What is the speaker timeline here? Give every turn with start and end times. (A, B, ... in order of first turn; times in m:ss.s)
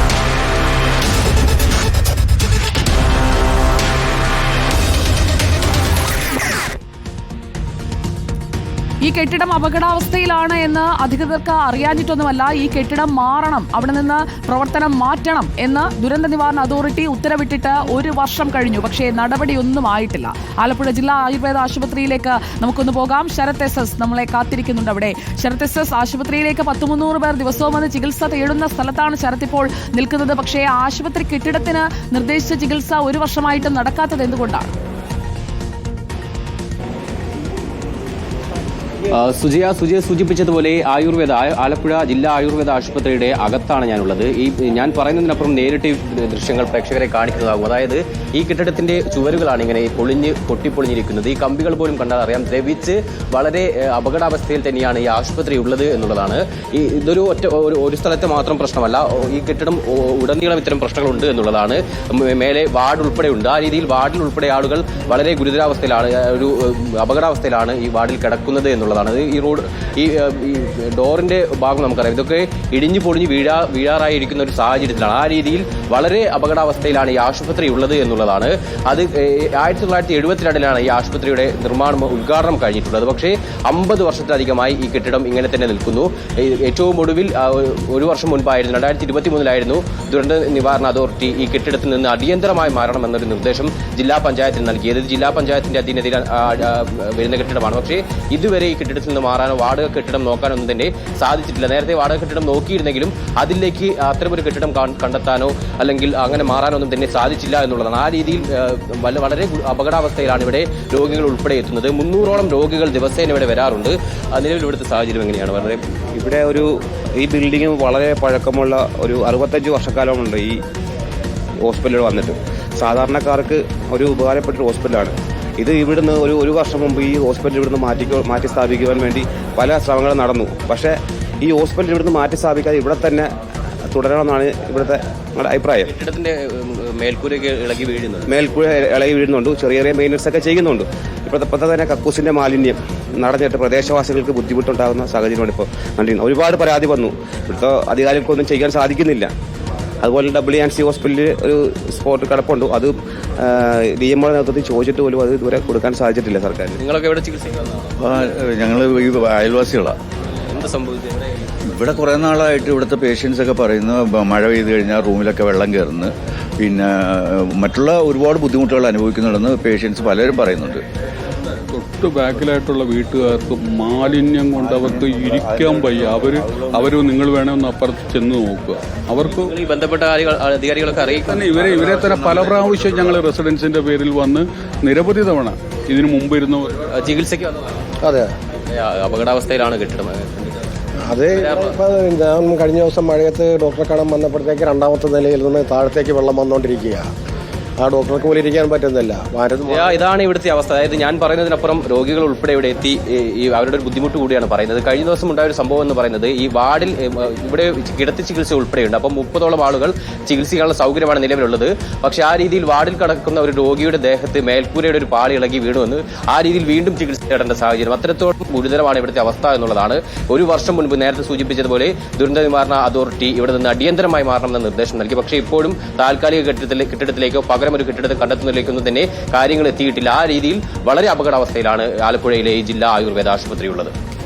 0:09.0-0:34.7 A
0:39.1-1:55.8 B
1:56.1-2:00.6 C
2:01.7-2:13.3 C
2:13.9-2:15.9 C
2:15.9-2:18.3 B
2:18.3-2:29.3 C
2:30.0-2:36.8 C
2:36.8-2:38.0 B
2:38.0-2:40.0 D
2:40.5-2:41.4 B
2:41.7-2:50.8 D
2:51.7-2:59.5 E
2:54.6-2:57.0 D
2:59.4-3:01.4 B
3:01.3-3:06.8 E
3:01.4-3:03.2 D
3:06.9-3:07.7 B
3:08.1-3:08.3 F
3:08.7-3:10.6 B
3:11.1-3:17.1 F
3:11.3-3:11.8 B
3:17.8-3:19.8 F
3:19.7-3:53.9 B